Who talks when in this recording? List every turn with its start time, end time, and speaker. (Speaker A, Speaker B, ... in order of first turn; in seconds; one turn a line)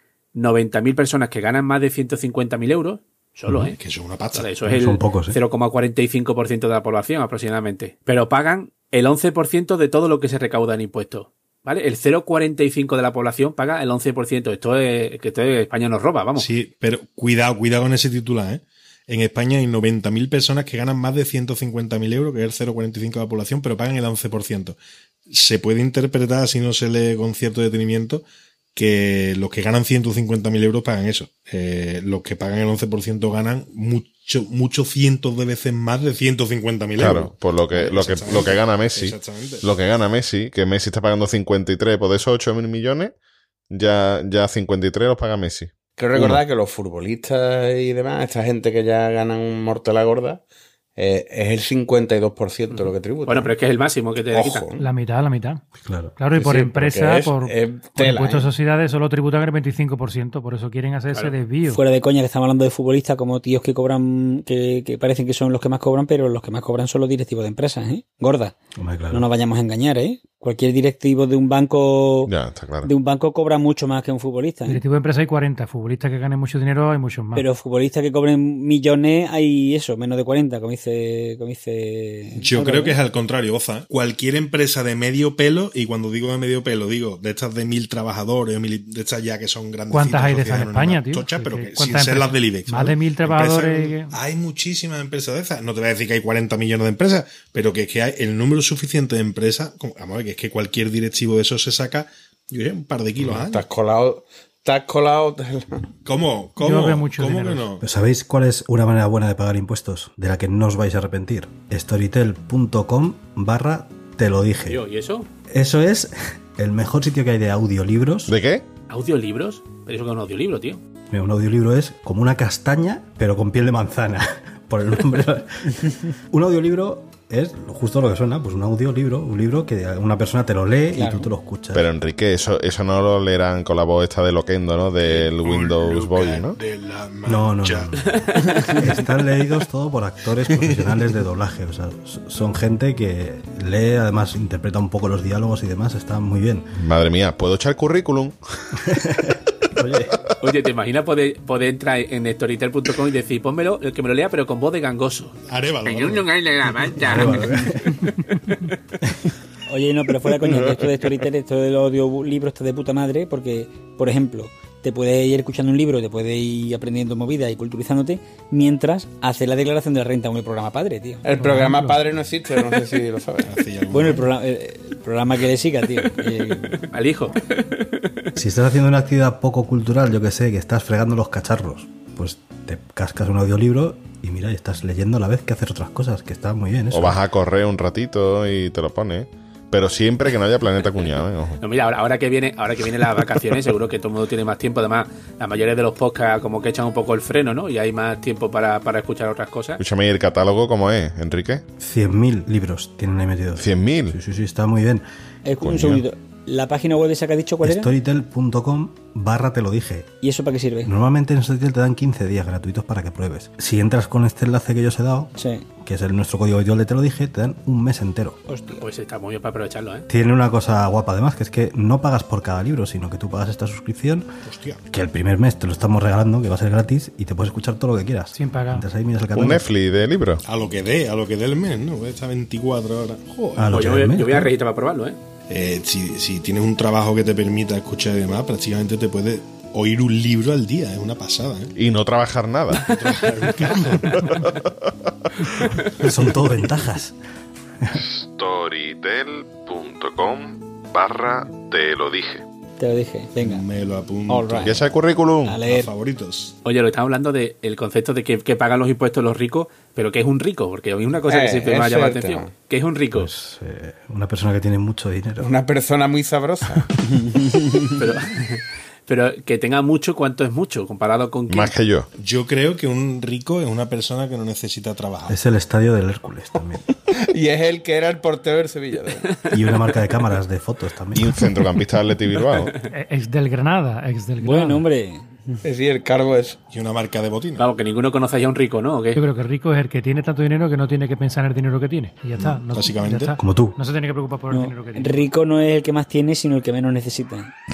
Speaker A: 0.3-3.8
Speaker B: 3.7-4.5
Speaker A: 4.3-16.5
Speaker C: 4.7-5.4
Speaker B: 16.4-24.8
Speaker B: 25.3-39.7
Speaker D: 37.0-43.1
Speaker D: 43.7-45.7
Speaker E: 46.0-50.4
Speaker E: 51.0-53.5
Speaker A: 52.7-54.7
Speaker E: 54.3-54.9
Speaker F: 54.8-55.6
Speaker C: 55.8-56.2
Speaker F: 56.2-61.8
Speaker E: 56.3-58.5
Speaker G: 61.7-68.6
Speaker C: 68.8-69.3
Speaker G: 69.1-72.3
Speaker D: 72.3-72.9
Speaker G: 72.8-74.8
Speaker F: 74.7-77.5
Speaker G: 77.3-83.0
Speaker B: 82.4-103.7
Speaker F: 89.9-94.2
Speaker E: 103.2-105.9
Speaker B: 106.0-107.8
Speaker F: 106.6-107.7
Speaker C: 107.8-114.8
Speaker A: 114.7-115.3
Speaker C: 115.5-118.3
Speaker D: 118.3-118.7
Speaker A: 118.9-120.8
Speaker C: 121.1-131.8
Speaker G: 130.9-131.3
Speaker D: 131.7-136.6
Speaker B: 135.0-138.0
Speaker C: 137.3-146.7
Speaker A: 138.2-138.6
Speaker B: 140.5-140.9
Speaker D: 146.8-148.4
Speaker C: 148.8-150.2
Speaker A: 150.4-157.6
Speaker B: 155.5-156.3
Speaker E: 156.8-157.6
Speaker C: 156.9-158.0
Speaker G: 159.7-171.3
Speaker E: 171.2-173.6
Speaker F: 171.4-172.0
Speaker B: 173.4-174.2
Speaker G: 173.9-176.9
Speaker A: 176.9-177.5
Speaker C: 178.4-187.2
Speaker D: 186.9-191.6
Speaker A: 191.6-199.8
Speaker D: 199.8-201.6
Speaker C: 201.8-205.1
Speaker D: 203.6-204.2
Speaker G: 205.4-207.9
Speaker D: 205.6-206.0
Speaker C: 207.6-210.1
Speaker G: 210.2-210.9
Speaker C: 210.8-218.4
Speaker G: 215.4-215.7
Speaker G: 218.5-218.8
Speaker A: 218.8-220.1
Speaker C: 220.1-224.3
Speaker B: 224.4-224.8
Speaker C: 224.9-229.7
Speaker F: 228.3-228.9
Speaker D: 229.3-230.4
Speaker B: 230.4-233.8
Speaker C: 233.6-234.5
Speaker A: 233.7-235.2
Speaker B: 235.5-241.7
Speaker D: 241.8-242.9
Speaker B: 242.8-244.6
Speaker D: 244.1-245.8
Speaker C: 246.0-247.2
Speaker D: 248.0-252.4
Speaker G: 252.8-253.6
Speaker B: 253.4-255.0
Speaker G: 254.3-254.8
Speaker D: 254.6-255.6
Speaker G: 255.4-255.9
Speaker B: 255.6-256.5
Speaker A: 256.6-263.3
Speaker E: 261.3-262.5
Speaker C: 263.1-265.5
Speaker E: 265.4-266.9
Speaker G: 267.3-267.9
Speaker A: 268.0-271.7
Speaker D: 271.5-272.1
Speaker B: 272.2-275.4
Speaker C: 275.3-276.9
Speaker E: 277.3-279.3
Speaker C: 279.5-281.4
Speaker D: 281.1-282.7
Speaker F: 282.9-284.9
Speaker G: 284.4-285.6
Speaker E: 285.6-286.6
Speaker B: 286.7-287.7
Speaker A: 287.6-289.2
Speaker F: 289.1-295.3
Speaker B: 292.4-293.3
Speaker C: 293.4-293.8
Speaker G: 294.5-297.5